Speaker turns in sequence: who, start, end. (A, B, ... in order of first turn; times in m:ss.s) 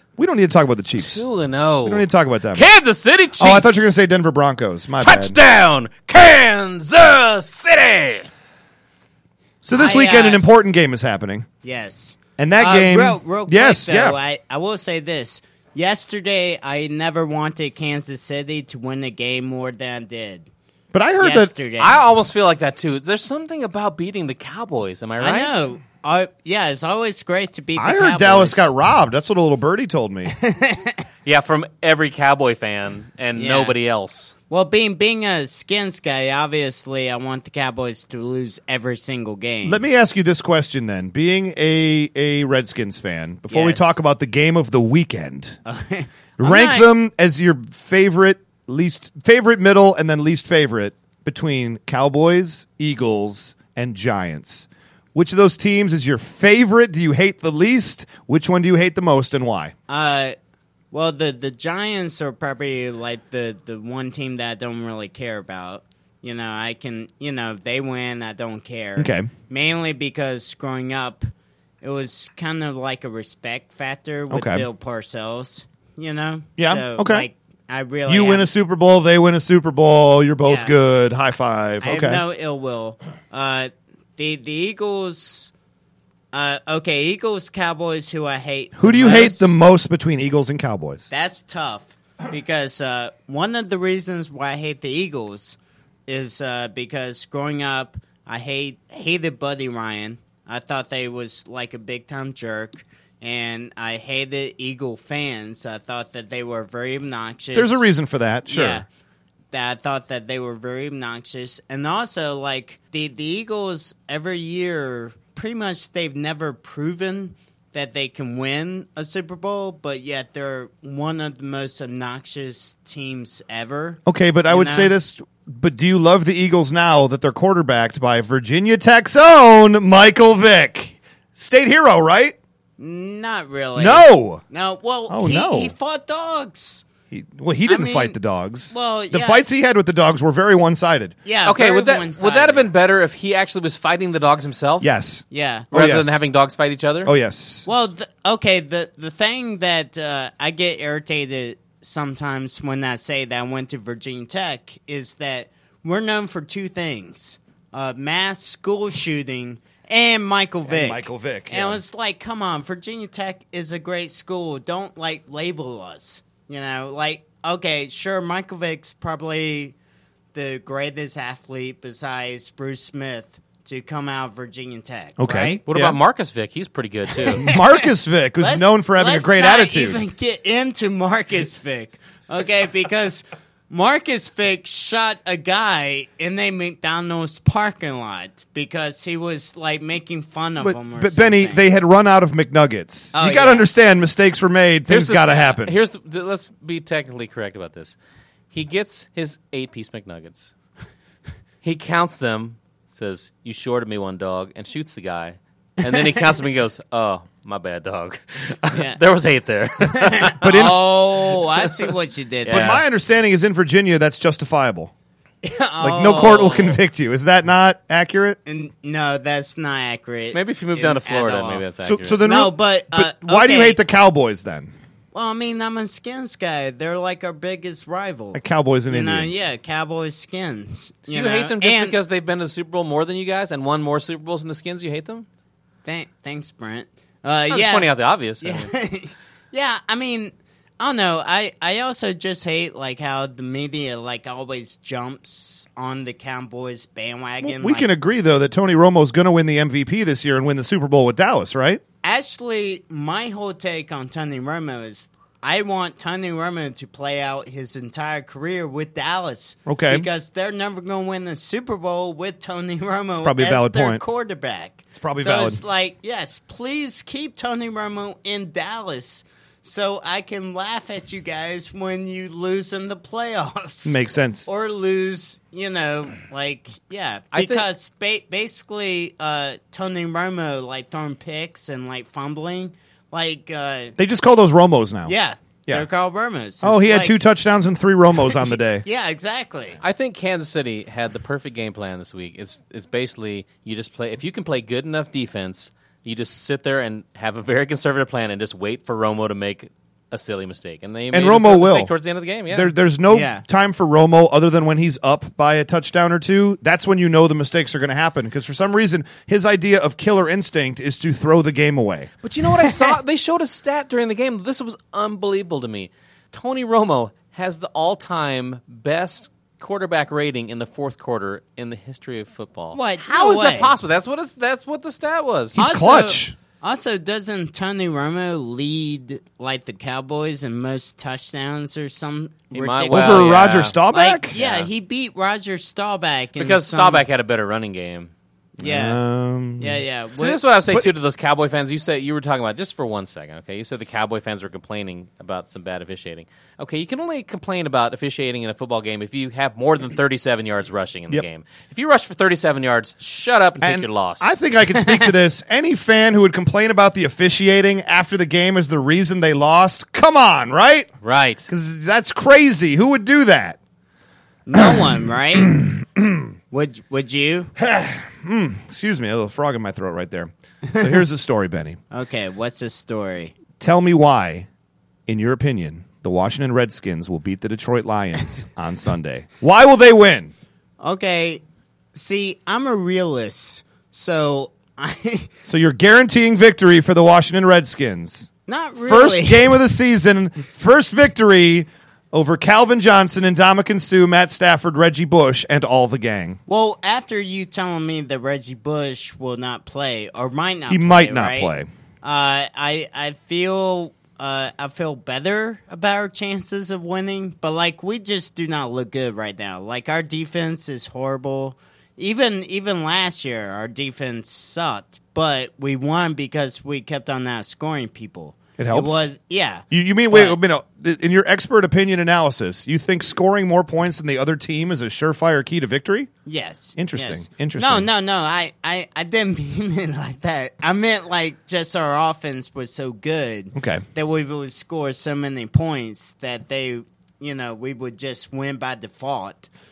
0:00.2-0:01.3 A
0:01.0-0:03.9 B
0:01.8-0:02.6 A
0:03.4-0:05.4 A
0:05.0-0:08.3 B
0:09.6-0:11.5 A
0:09.7-0:10.5 C
0:11.6-0:20.5 C
0:12.4-0:14.2 A
0:20.9-0:21.5 A
0:21.2-0:22.0 C
0:21.8-0:25.6 B
0:25.2-0:28.7 C
0:27.8-0:30.3 A
0:30.3-0:31.0 C
0:31.2-0:34.3 B
0:33.4-0:33.8 C
0:34.5-0:39.8 C
0:39.6-0:45.6 A
0:43.5-0:43.9 C
0:45.6-0:46.9 C
0:46.4-0:59.7 A
0:59.9-1:00.4 C
1:00.9-1:11.3 C
1:09.0-1:09.3 A
1:11.8-1:18.5 C
1:14.3-1:14.6 A
1:16.6-1:17.3 A
1:18.1-1:22.2 A
1:20.4-1:20.7 C
1:21.8-1:25.5 C
1:26.3-1:29.5 C
1:28.8-1:31.1 A
1:31.1-1:47.9 C
1:47.5-1:48.8 A
1:48.5-1:48.9 C
1:49.5-2:04.9 C
2:04.0-2:12.4 A
2:12.8-2:16.8 C
2:13.8-2:14.4 A
2:15.1-2:15.7 A
2:17.1-2:21.1 A
2:17.6-2:18.2 C
2:18.7-2:19.4 C
2:21.2-2:22.7 C
2:21.4-2:24.9 B
2:24.8-2:26.2 A
2:25.3-2:25.7 C
2:25.7-2:27.1 B
2:27.0-2:27.7 A
2:27.6-2:49.7 C
2:40.6-2:41.8 A
2:50.3-2:55.6 C
2:55.2-2:56.0 A
2:55.7-2:57.4 B
2:57.3-3:00.0 A
2:57.3-2:57.8 C
2:58.4-3:11.6 C
3:10.6-3:15.7 A
3:13.1-3:13.7 C
3:14.9-3:18.0 B
3:18.5-3:20.5 B
3:21.6-3:30.4 B
3:28.7-3:29.0 C
3:29.9-3:32.8 C
3:30.4-3:30.8 A
3:31.6-3:31.9 B
3:32.4-3:32.8 B
3:32.5-3:34.9 A
3:35.4-3:36.8 C
3:35.8-3:38.4 A
3:38.4-3:41.6 C
3:40.3-3:42.2 B
3:41.8-3:44.7 A
3:42.2-3:43.8 C
3:45.1-3:52.0 C
3:48.3-3:49.4 A
3:51.1-3:55.2 B
3:55.8-3:57.9 C
3:57.5-3:58.7 B
3:58.4-4:07.9 C
4:07.4-4:11.8 A
4:12.0-4:44.0 C
4:19.7-4:20.1 A
4:23.2-4:24.0 A
4:24.9-4:25.6 A
4:33.8-4:34.5 A
4:37.3-4:37.6 B
4:44.0-4:45.1 A
4:45.0-4:47.1 C
4:46.6-4:48.8 A
4:48.2-4:49.8 C
4:49.8-5:02.7 B
5:01.1-5:01.9 A
5:02.5-5:12.1 A
5:03.1-5:03.4 C
5:12.2-5:25.6 B
5:22.7-5:23.7 C
5:25.5-5:26.3 A
5:25.6-5:37.0 C
5:32.5-5:33.7 B
5:32.9-5:34.4 A
5:34.3-5:34.7 B
5:36.4-5:38.1 B
5:38.6-5:39.0 C
5:38.6-5:39.8 A
5:39.6-5:40.4 C
5:40.2-5:54.3 B
5:53.6-6:00.9 A
6:01.0-6:01.5 B
6:01.5-6:03.6 A
6:04.5-6:05.6 C
6:04.6-6:04.8 A
6:05.5-6:06.3 A
6:06.5-6:07.5 C
6:07.6-6:11.8 A
6:10.6-6:10.9 C
6:11.9-6:13.3 C
6:13.6-6:14.5 A
6:15.1-6:20.3 A
6:20.8-6:21.4 C
6:21.9-6:25.3 C
6:25.4-6:28.3 A
6:28.5-6:29.5 C
6:28.8-6:36.4 A
6:36.5-7:00.4 C
6:40.7-6:41.7 A
6:58.6-6:59.0 A
6:59.7-7:06.1 A
7:06.2-7:19.5 C
7:06.8-7:07.9 A
7:13.5-7:13.8 A